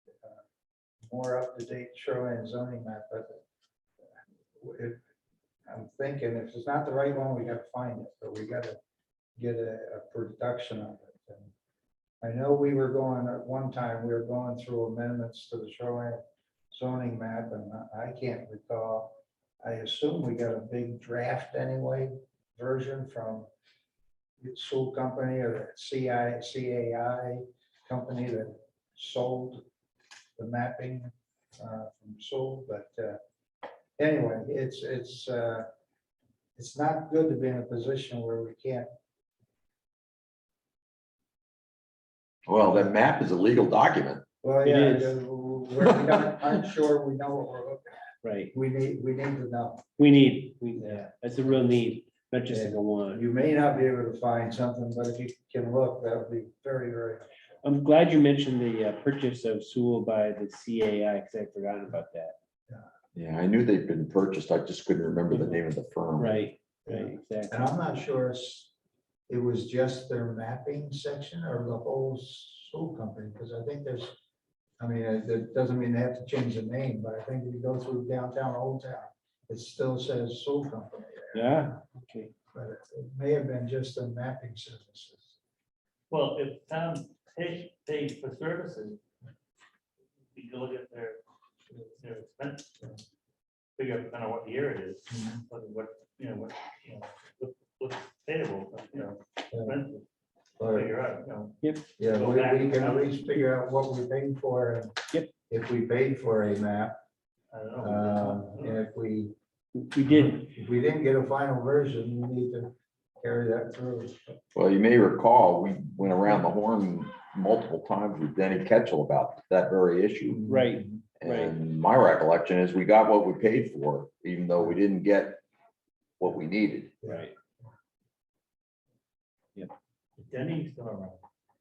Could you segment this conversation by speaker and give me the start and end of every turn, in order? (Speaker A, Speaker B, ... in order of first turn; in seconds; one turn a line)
Speaker A: 1.1-3.4
Speaker A: 4.6-5.0
Speaker A: 5.7-8.8
Speaker A: 9.4-11.5
Speaker A: 12.2-23.5
Speaker A: 24.4-29.6
Speaker A: 30.4-33.2
Speaker A: 34.0-35.7
Speaker A: 36.6-38.9
Speaker B: 42.5-44.2
Speaker A: 44.4-49.9
Speaker C: 44.6-45.2
Speaker C: 48.2-48.5
Speaker C: 50.0-53.2
Speaker A: 52.5-57.3
Speaker C: 57.6-62.4
Speaker B: 63.1-66.5
Speaker C: 65.3-65.6
Speaker C: 66.2-67.7
Speaker A: 66.9-68.7
Speaker A: 69.3-74.1
Speaker A: 74.8-81.8
Speaker C: 81.3-82.3
Speaker A: 82.5-85.4
Speaker D: 86.1-89.0
Speaker D: 90.3-91.2
Speaker D: 92.0-92.9
Speaker D: 93.8-100.0
Speaker A: 95.1-95.4
Speaker A: 100.6-100.9
Speaker D: 100.6-103.4
Speaker C: 101.6-101.9
Speaker A: 102.0-107.0
Speaker D: 107.5-108.8
Speaker A: 107.8-109.3
Speaker C: 109.8-110.4
Speaker A: 110.1-114.4
Speaker B: 114.5-120.4
Speaker A: 120.3-121.0
Speaker C: 120.5-121.5
Speaker B: 121.2-125.4
Speaker B: 126.2-127.0
Speaker C: 127.0-127.3
Speaker D: 130.2-131.2